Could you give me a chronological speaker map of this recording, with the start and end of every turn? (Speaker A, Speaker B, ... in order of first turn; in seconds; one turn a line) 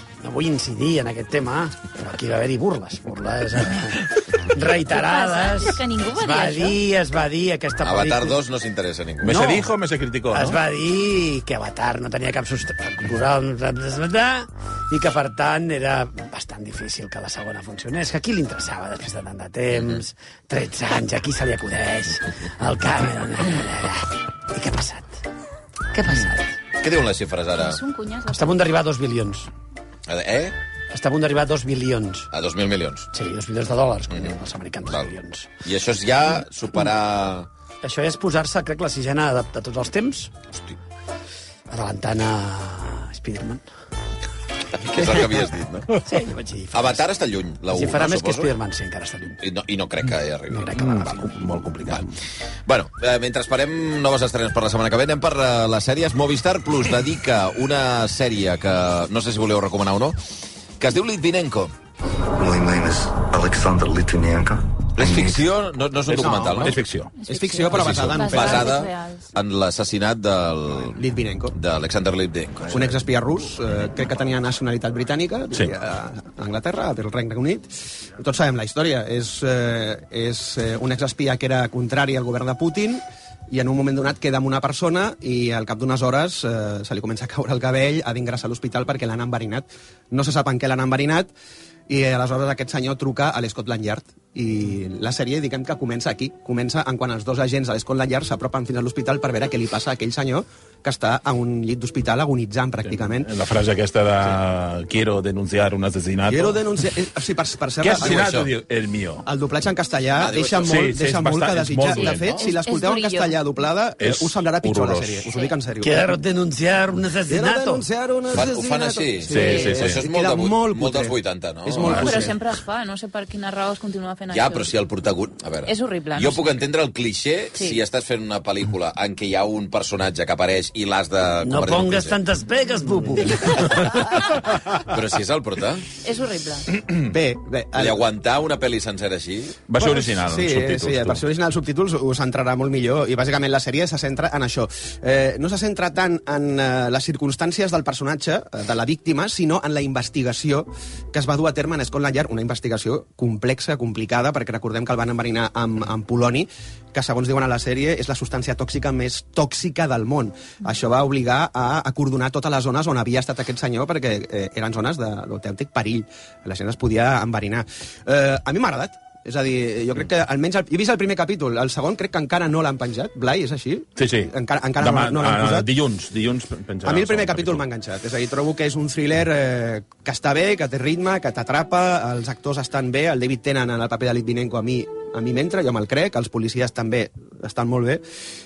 Speaker A: 0.2-8.4
Speaker B: 4.9-6.8
Speaker C: 7.8-9.4
Speaker A: 9.2-9.7
Speaker D: 9.2-10.6
Speaker A: 10.3-25.2
Speaker A: 25.9-26.5
Speaker C: 26.8-27.8
Speaker B: 27.5-28.6
Speaker A: 28.3-29.5
Speaker C: 30.1-30.6
Speaker A: 30.9-32.3
Speaker C: 32.3-33.1
Speaker A: 33.1-35.5
Speaker C: 35.6-37.5
Speaker A: 37.8-40.3
Speaker A: 41.7-43.6
Speaker C: 44.8-46.0
Speaker A: 46.0-47.1
Speaker C: 46.7-48.5
Speaker A: 47.7-49.4
Speaker C: 49.4-51.2
Speaker A: 50.5-51.4
Speaker D: 50.8-52.1
Speaker C: 52.6-60.2
Speaker C: 60.8-61.7
Speaker E: 62.4-65.5
Speaker C: 65.0-66.8
Speaker F: 66.1-68.8
Speaker D: 66.3-67.1
Speaker B: 67.2-69.3
Speaker D: 67.7-68.2
Speaker C: 67.8-73.0
Speaker F: 70.9-71.5
Speaker F: 72.7-91.3
Speaker F: 91.9-103.3
Speaker D: 102.9-106.6
Speaker F: 106.3-108.5
Speaker D: 107.8-109.2
Speaker C: 108.0-108.5
Speaker F: 109.2-116.1
Speaker C: 110.2-110.8
Speaker D: 110.6-112.4
Speaker B: 111.9-113.4
Speaker D: 114.0-115.3
Speaker A: 115.8-117.8
Speaker F: 117.3-122.3
Speaker C: 118.3-122.1
Speaker D: 119.3-120.0
Speaker B: 119.4-119.7
Speaker D: 121.8-122.2
Speaker B: 121.9-124.7
Speaker C: 124.3-132.2
Speaker B: 125.6-126.5
Speaker B: 127.5-127.8
Speaker A: 131.4-134.0
Speaker C: 133.5-135.9
Speaker B: 136.0-136.7
Speaker F: 136.9-138.1
Speaker C: 137.8-139.6
Speaker D: 139.7-141.2
Speaker F: 139.8-175.7
Speaker D: 174.0-177.6
Speaker F: 176.8-188.0